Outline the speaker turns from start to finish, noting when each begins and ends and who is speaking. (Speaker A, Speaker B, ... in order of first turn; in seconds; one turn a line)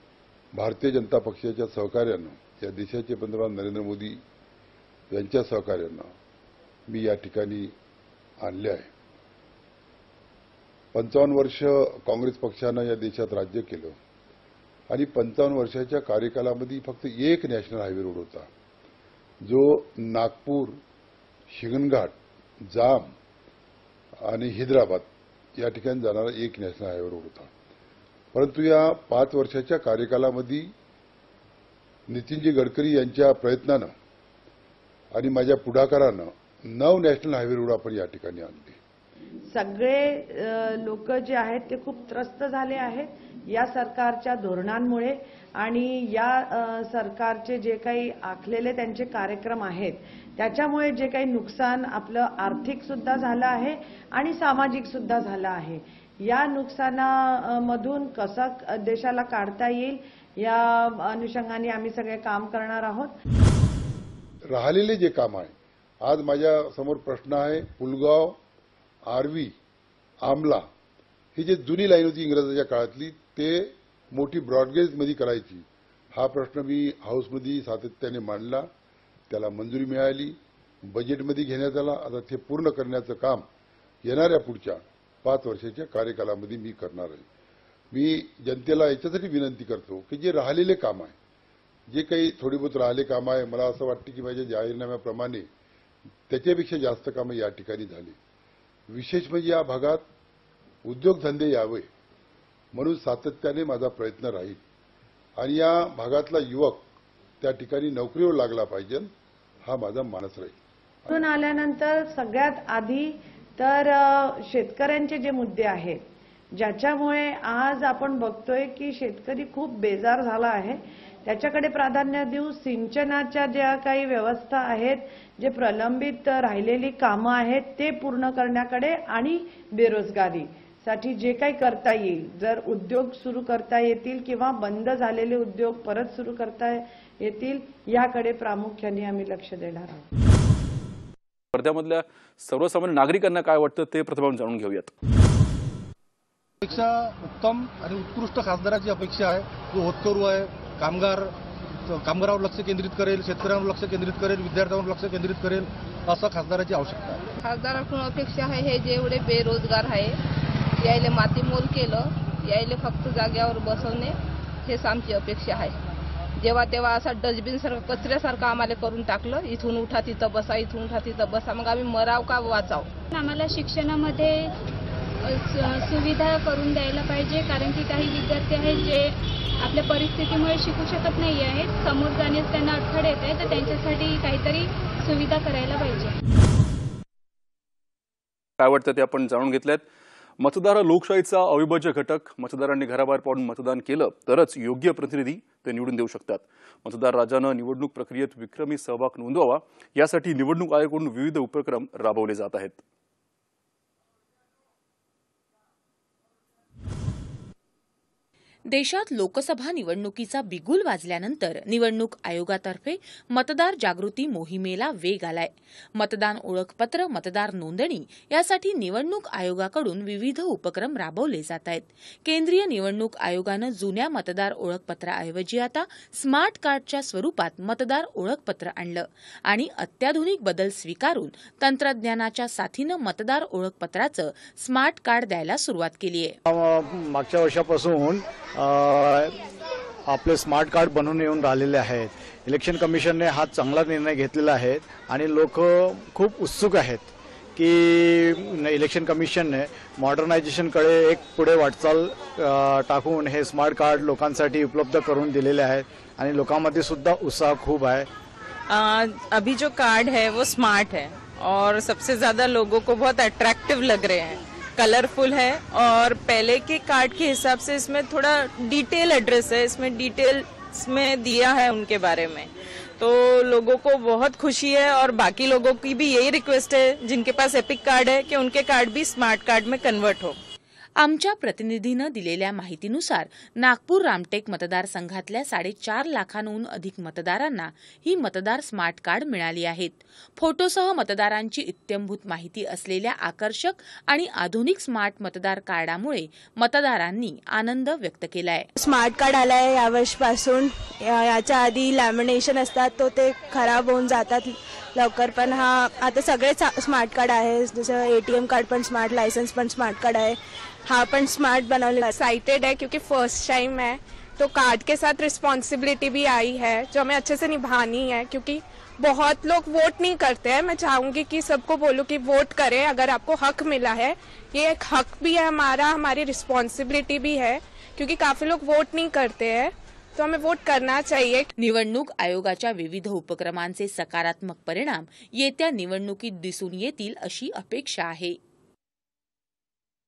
Speaker A: 0.5-4.2
Speaker A: 5.1-6.1
Speaker A: 6.9-7.7
Speaker A: 8.4-8.9
Speaker A: 10.9-14.0
Speaker A: 14.9-18.5
Speaker A: 19.4-20.8
Speaker A: 21.5-22.2
Speaker A: 22.7-23.1
Speaker A: 24.2-27.5
Speaker A: 28.3-30.7
Speaker A: 32.1-33.9
Speaker A: 35.1-38.8
Speaker B: 39.5-63.1
Speaker A: 64.5-68.4
Speaker A: 69.1-69.5
Speaker A: 70.2-70.7
Speaker A: 71.3-78.7
Speaker A: 79.3-83.5
Speaker A: 84.0-87.3
Speaker A: 87.9-91.2
Speaker A: 91.9-95.5
Speaker A: 96.3-98.2
Speaker A: 98.9-100.1
Speaker A: 100.8-101.9
Speaker A: 102.7-104.6
Speaker A: 105.4-106.9
Speaker A: 107.4-109.1
Speaker A: 109.7-111.2
Speaker B: 111.1-116.0
Speaker B: 116.5-140.1
Speaker C: 141.5-144.9
Speaker D: 146.6-151.3
Speaker D: 151.9-157.3
Speaker E: 157.4-160.2
Speaker E: 160.8-165.8
Speaker E: 166.4-172.9
Speaker F: 173.1-174.5
Speaker F: 175.2-186.1
Speaker C: 188.6-189.8
Speaker C: 190.4-202.8
Speaker G: 208.7-236.4
Speaker H: 236.5-239.3
Speaker H: 240.1-258.1
Speaker I: 258.7-280.4
Speaker G: 281.0-298.7
Speaker J: 298.8-312.1
Speaker K: 312.0-331.5
Speaker G: 331.6-338.4